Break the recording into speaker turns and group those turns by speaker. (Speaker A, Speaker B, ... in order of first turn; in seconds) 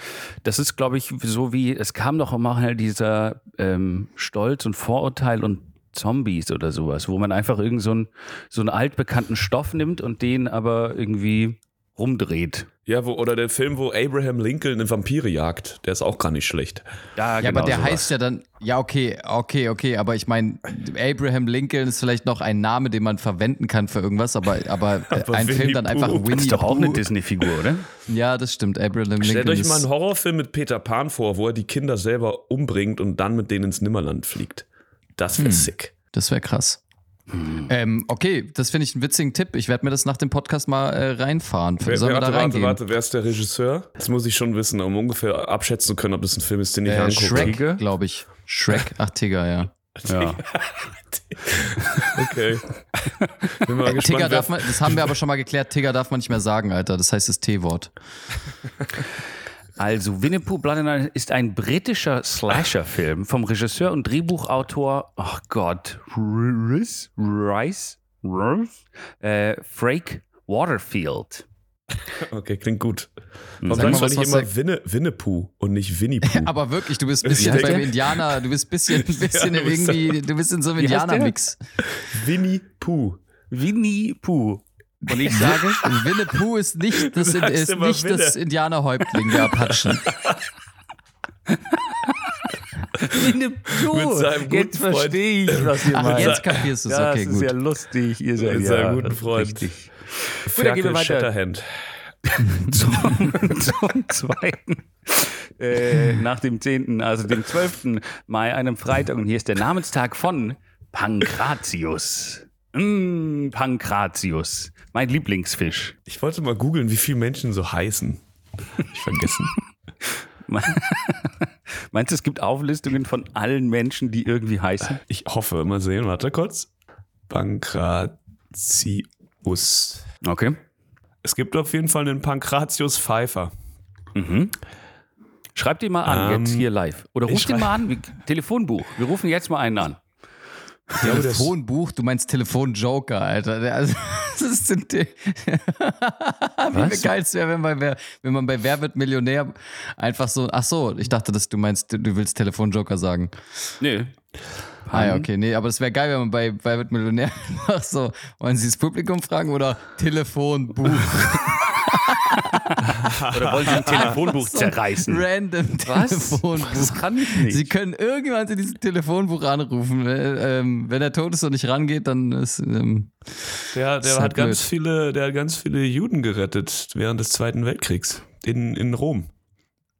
Speaker A: 0.4-12.7, 17.2-18.1, 26.1-27.9, 37.4-37.7, 47.3-47.8, 50.0-50.4, 53.2-53.6, 59.8-71.5, 73.6-74.1, 77.4-77.8, 80.8-81.3, 83.5-85.8, 91.5-92.3, 93.0-101.3, 102.3-115.9, 120.1-125.0, 130.2-130.6, 134.1-134.5, 135.6-140.0, 146.7-147.1, 153.8-154.1, 154.8-155.3, 163.3-165.2, 165.8-167.7
Speaker B: 12.9-16.8, 25.1-26.4, 29.2-34.6, 35.2-35.9, 41.8-47.6, 50.0-52.8, 53.5-55.1, 72.0-73.1, 73.6-76.5, 77.2-80.2, 81.9-83.2, 86.9-88.4, 89.1-90.4, 93.1-96.7, 98.4-99.7, 100.4-101.9, 116.1-118.2, 118.7-119.6, 125.0-126.7, 127.3-130.1, 131.2-133.5, 136.0-136.7, 137.2-137.8, 141.0-141.5, 162.9-164.1, 173.7-179.3
Speaker C: 17.4-27.1, 28.1-29.9, 35.4-36.8, 37.6-42.8, 46.8-49.7, 53.9-57.9, 73.7-74.5, 76.2-81.6, 85.0-90.0, 95.8-97.5, 141.0-153.3, 154.9-163.0, 163.6-173.1, 174.0-174.6